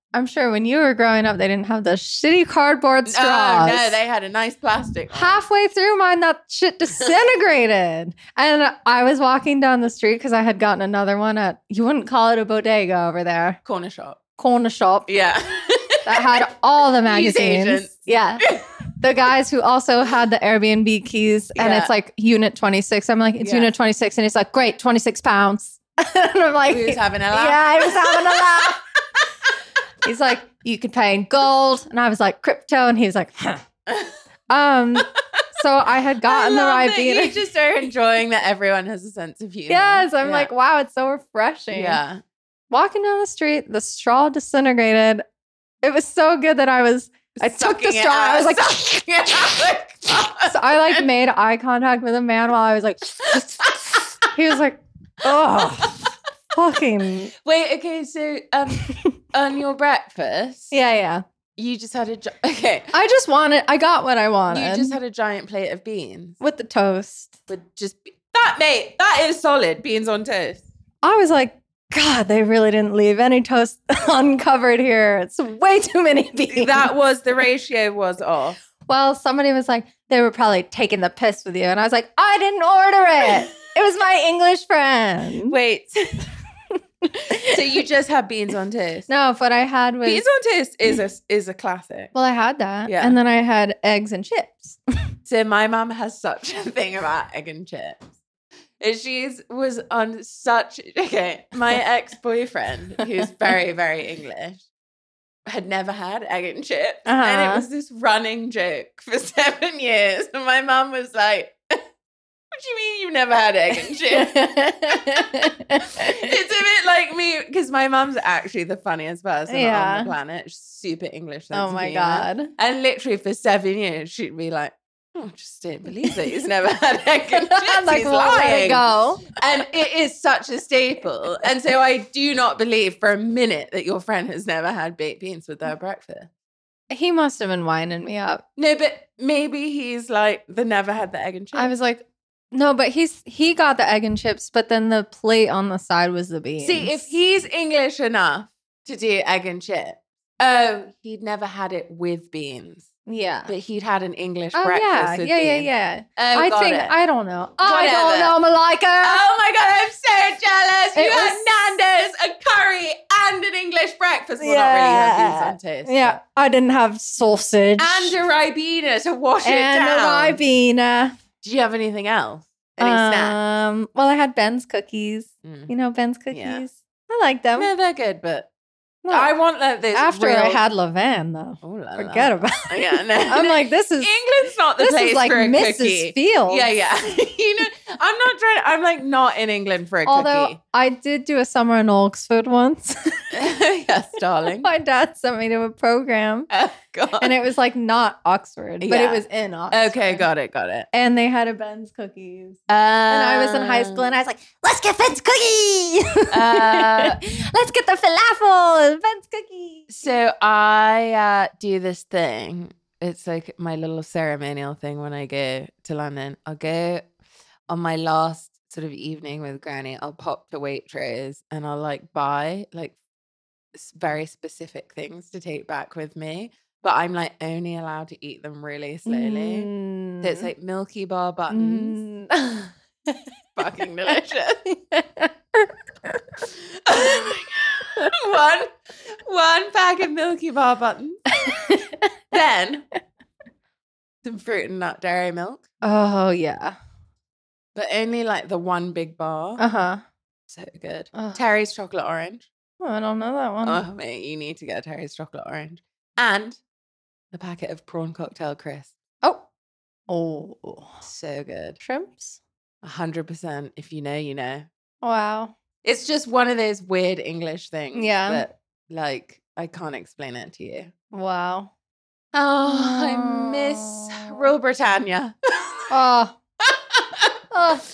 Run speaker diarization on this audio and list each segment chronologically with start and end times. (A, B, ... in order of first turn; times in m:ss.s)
0:00.1-0:04.0 A
0:03.0-0:05.4 B
0:05.1-0:13.6 A
0:13.6-0:14.2 B
0:14.4-0:15.1 A
0:15.1-0:16.3 B
0:16.0-0:18.4 A
0:17.1-0:18.6 B
0:19.0-0:28.8 A
0:21.6-0:21.9 B
0:23.4-0:23.7 B
0:26.6-0:29.5 B
0:30.0-0:33.6 A
0:33.9-0:34.1 B
0:34.5-0:37.5 A
0:35.0-0:35.4 B
0:36.3-0:40.5 B
0:39.7-0:42.0 A
0:41.7-0:42.2 B
0:42.7-0:45.2 A
0:45.8-0:49.6 A
0:47.4-0:51.0 B
0:50.4-0:57.3 A
0:53.2-0:54.3 B
0:55.2-0:56.1 B
0:57.3-1:00.7 B
0:58.7-0:59.1 A
1:00.7-1:01.2 A
1:01.6-1:02.9 B
1:02.9-1:05.0 A
1:04.5-1:06.4 B
1:06.4-1:07.4 A
1:07.5-1:10.6 B
1:11.0-1:16.9 A
1:16.5-1:18.6 B
1:18.8-1:25.6 A
1:25.5-1:26.2 B
1:27.0-1:27.6 A
1:27.4-1:29.1 B
1:29.1-1:30.3 A
1:30.0-1:32.1 B
1:32.1-1:34.8 A
1:32.8-1:33.2 B
1:35.2-1:38.1 B
1:38.8-1:44.6 B
1:45.5-1:51.6 B
1:47.0-1:47.6 A
1:52.5-2:16.3 B
1:54.0-1:56.3 A
1:59.5-2:00.1 A
2:01.5-2:02.5 A
2:05.9-2:06.2 A
2:07.3-2:09.3 A
2:16.9-2:18.4 A
2:18.6-2:21.7 B
2:21.5-2:27.1 A
2:26.6-2:32.9 B
2:33.0-2:33.5 A
2:33.5-2:36.9 B
2:34.5-2:39.2 A
2:37.6-2:38.4 B
2:39.0-2:46.2 B
2:40.9-2:41.8 A
2:44.4-2:48.2 A
2:47.8-2:50.4 B
2:49.4-2:51.2 A
2:51.4-2:53.4 B
2:52.8-2:57.7 A
2:55.4-2:55.7 B
2:56.3-2:56.6 B
2:57.6-2:58.5 B
2:59.0-2:59.3 A
2:59.1-3:00.6 B
2:59.9-3:04.2 A
3:01.6-3:10.6 B
3:04.8-3:06.7 A
3:10.0-3:13.4 A
3:13.3-3:14.7 B
3:14.6-3:16.5 A
3:16.5-3:17.3 B
3:17.1-3:20.3 A
3:18.8-3:20.9 B
3:20.9-3:30.1 A
3:22.7-3:24.2 B
3:26.3-3:27.2 B
3:29.9-3:37.1 B
3:37.7-3:42.9 B
3:43.7-3:49.7 B
3:49.0-3:50.5 A
3:50.2-3:52.0 B
3:51.5-3:53.2 A
3:53.6-3:54.6 B
3:54.7-3:56.2 A
3:56.4-4:01.2 B
4:01.4-4:02.1 A
4:02.3-4:02.8 B
4:04.2-4:05.6 B
4:05.8-4:06.8 A
4:07.7-4:09.6 B
4:09.6-4:10.0 A
4:10.5-4:12.5 B
4:11.1-4:11.4 A
4:12.8-4:13.8 A
4:13.6-4:16.6 B
4:17.3-4:18.9 B
4:19.2-4:19.5 A
4:20.1-4:21.0 A
4:21.0-4:21.8 B
4:21.8-4:22.4 A
4:22.8-4:24.7 B
4:25.0-4:25.6 A
4:25.8-4:30.9 B
4:27.9-4:28.4 A
4:31.1-4:31.7 A
4:32.3-4:35.9 B
4:32.6-4:34.5 A
4:35.9-4:36.4 A
4:36.6-4:37.3 B
4:37.5-4:37.8 A